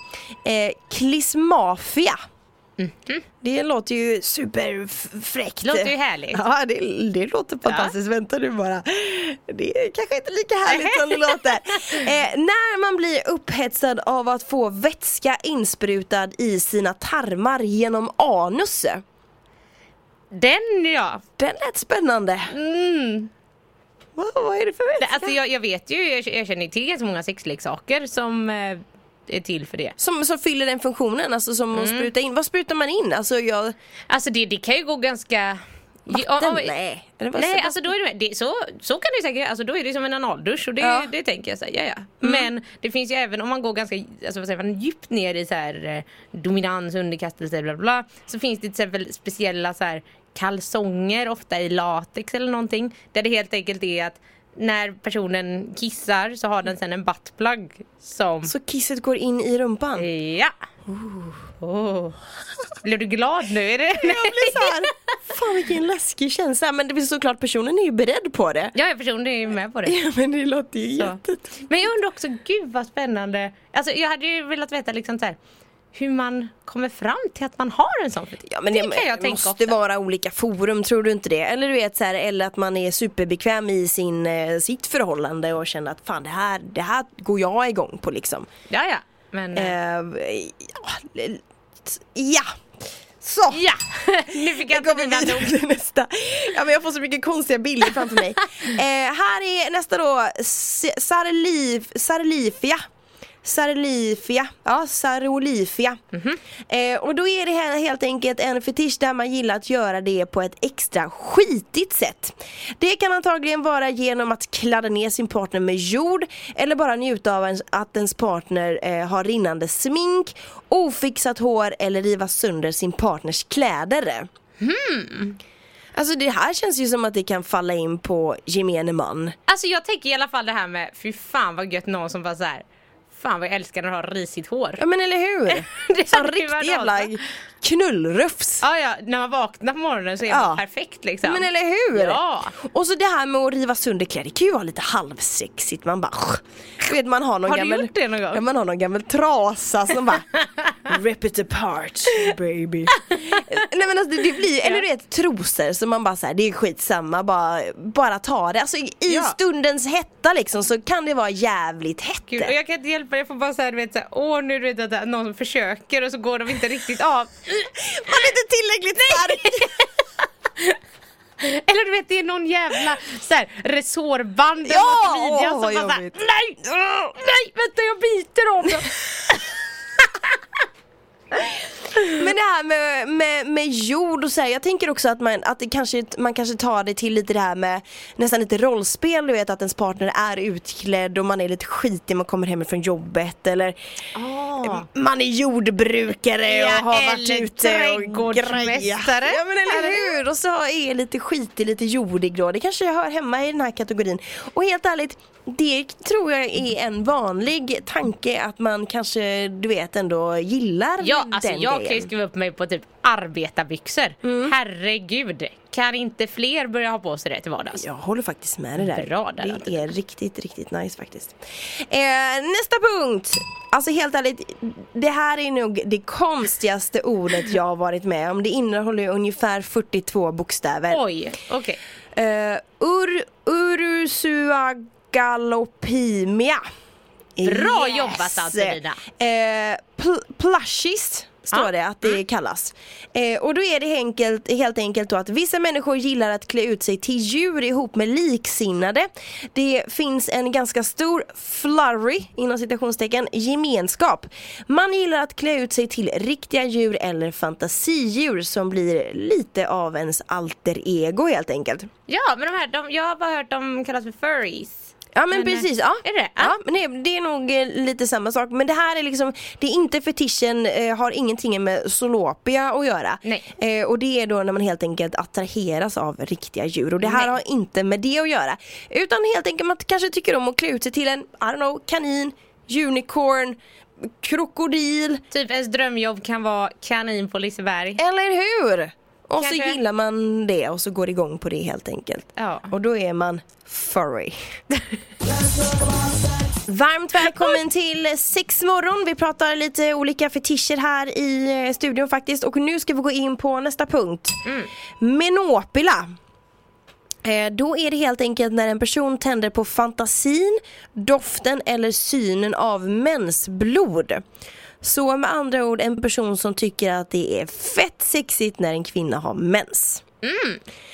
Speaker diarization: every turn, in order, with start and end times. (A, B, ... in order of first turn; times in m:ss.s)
0:00.4-0:02.2 A
0:02.8-0:03.2 B
0:03.4-0:19.0 A
0:05.6-0:06.4 B
0:07.6-0:07.9 B
0:10.6-0:12.1 B
0:20.3-0:21.2 B
0:21.4-0:22.5 A
0:22.5-0:23.3 B
0:24.2-0:25.4 A
0:25.0-0:29.9 B
0:30.0-0:33.7 A
0:31.7-0:32.1 B
0:34.1-0:36.7 B
0:36.1-0:37.9 A
0:37.3-0:58.5 B
0:40.8-0:41.1 A
0:42.2-0:42.5 A
0:58.4-1:00.1 A
1:00.0-1:00.5 B
1:00.9-1:01.4 A
1:01.6-1:02.2 B
1:02.8-1:05.1 B
1:04.0-1:08.7 A
1:08.7-1:10.0 B
1:09.8-1:11.6 A
1:10.9-1:15.4 B
1:15.9-1:19.8 B
1:18.5-1:28.5 A
1:28.7-1:29.7 B
1:29.5-1:32.5 A
1:33.2-1:33.7 A
1:33.5-1:35.5 B
1:34.3-1:42.8 A
1:43.4-1:46.0 A
1:46.1-1:46.4 B
1:46.7-2:04.3 A
2:04.6-2:05.4 B
2:05.9-2:09.4 A
2:09.5-2:12.6 B
2:13.2-2:14.8 B
2:14.8-2:18.6 A
2:15.5-2:17.2 B
2:18.6-2:22.5 B
2:20.3-2:20.6 A
2:21.2-2:30.3 A
2:27.4-2:28.4 B
2:30.8-2:42.5 A
2:33.1-2:33.4 B
2:39.1-2:39.4 B
2:42.3-2:47.7 B
2:47.7-2:49.7 A
2:49.0-2:49.9 B
2:51.4-3:00.4 B
2:54.6-2:56.2 A
3:02.1-3:13.8 A
3:14.1-3:14.8 B
3:14.6-3:32.1 A
3:16.5-3:20.2 B
3:31.0-3:37.8 B
3:34.2-3:34.5 A
3:37.7-3:51.0 A
3:38.8-3:39.8 B
3:50.9-3:51.8 B
3:52.1-3:56.6 A
3:57.4-4:21.9 A
3:57.4-3:59.0 B
4:01.5-4:02.2 B
4:22.1-4:26.6 B
4:25.2-4:43.6 A
4:37.0-4:37.3 B
4:44.2-4:45.2 A
4:45.3-4:48.0 B
4:48.0-4:54.4 A
4:49.4-4:49.8 B
4:52.4-4:52.7 B
4:56.7-5:04.4 A
4:57.2-4:57.5 B
5:04.4-5:04.7 B
5:05.0-5:06.1 A
5:07.2-5:14.2 A
5:14.8-5:20.0 A
5:20.2-5:20.6 B